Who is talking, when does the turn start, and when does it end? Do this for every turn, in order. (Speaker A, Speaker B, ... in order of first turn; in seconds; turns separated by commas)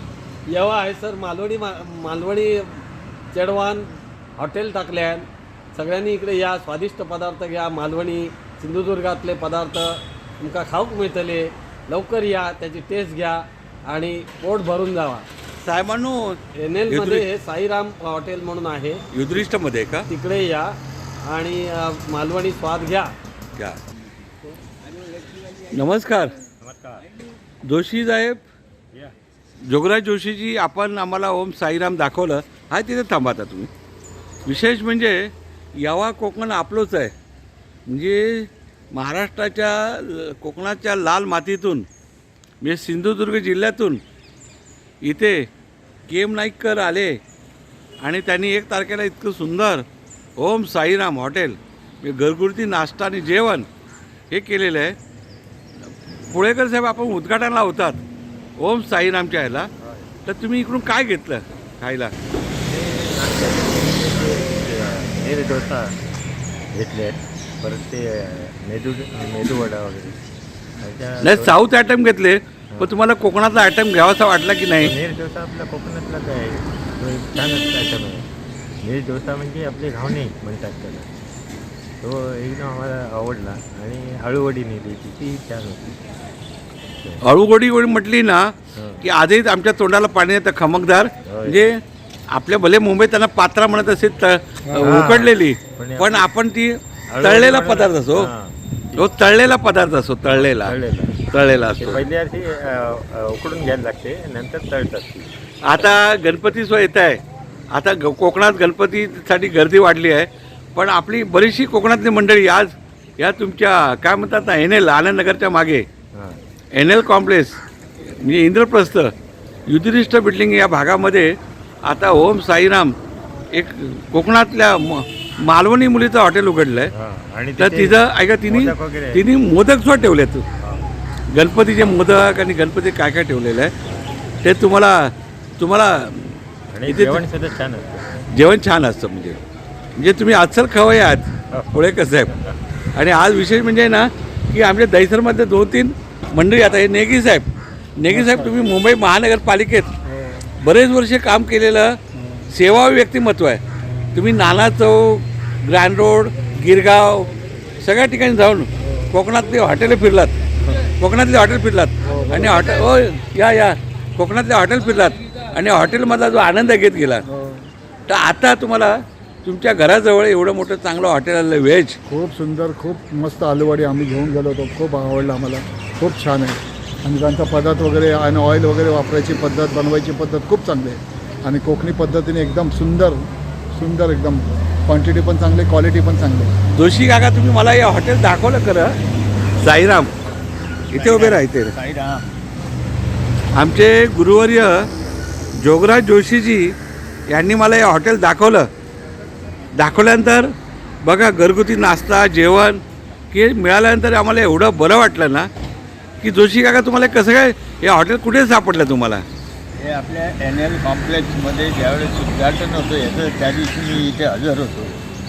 Speaker A: 0.5-2.8, Speaker A: 3.3-15.2, Speaker B: 15.6-16.4, Speaker A: 16.5-19.0, Speaker B: 16.9-17.2, Speaker B: 19.1-20.1, Speaker A: 20.1-20.7, Speaker A: 21.3-23.1, Speaker B: 25.7-26.3, Speaker C: 26.6-27.0, Speaker B: 27.6-28.4, Speaker B: 29.7-33.7, Speaker B: 34.5-37.1, Speaker B: 37.9-41.9, Speaker B: 42.6-44.0, Speaker B: 45.0-45.4, Speaker B: 46.1-47.1, Speaker B: 48.0-49.8, Speaker B: 50.4-53.7, Speaker B: 54.3-55.0, Speaker B: 56.3-58.0, Speaker B: 58.6-59.7, Speaker B: 60.2-62.1, Speaker C: 62.6-66.0, Speaker C: 66.7-70.2, Speaker C: 70.8-71.5, Speaker B: 71.2-74.9, Speaker C: 74.8-78.3, Speaker C: 78.8-81.1, Speaker C: 82.0-86.0, Speaker B: 87.2-91.8, Speaker C: 88.8-89.0, Speaker C: 91.2-91.6, Speaker B: 92.3-98.3, Speaker C: 94.8-96.3, Speaker C: 97.1-99.1, Speaker B: 98.9-102.1, Speaker C: 100.3-101.2, Speaker C: 101.8-105.3, Speaker B: 105.7-107.2, Speaker B: 107.7-115.8, Speaker B: 116.7-119.1, Speaker B: 119.7-121.3, Speaker B: 121.8-122.9, Speaker B: 123.5-126.9, Speaker C: 127.0-129.2, Speaker B: 127.5-130.4, Speaker B: 131.3-133.7, Speaker B: 134.4-137.2, Speaker C: 136.7-138.2, Speaker B: 138.3-139.4, Speaker B: 140.0-142.3, Speaker C: 141.5-141.9, Speaker B: 142.9-149.9, Speaker B: 150.6-152.0, Speaker B: 152.5-153.6, Speaker B: 154.1-157.3, Speaker B: 157.8-160.3, Speaker B: 161.0-167.2, Speaker D: 167.3-167.6, Speaker B: 168.1-172.0, Speaker D: 172.1-186.5, Speaker B: 186.7-188.9, Speaker B: 189.6-190.1, Speaker B: 190.9-191.7, Speaker E: 190.9-192.2, Speaker B: 193.6-194.9, Speaker B: 195.6-196.7, Speaker B: 197.3-198.7, Speaker B: 199.8-200.5, Speaker B: 201.0-202.8, Speaker B: 203.3-205.5, Speaker B: 206.2-209.2, Speaker E: 209.8-214.9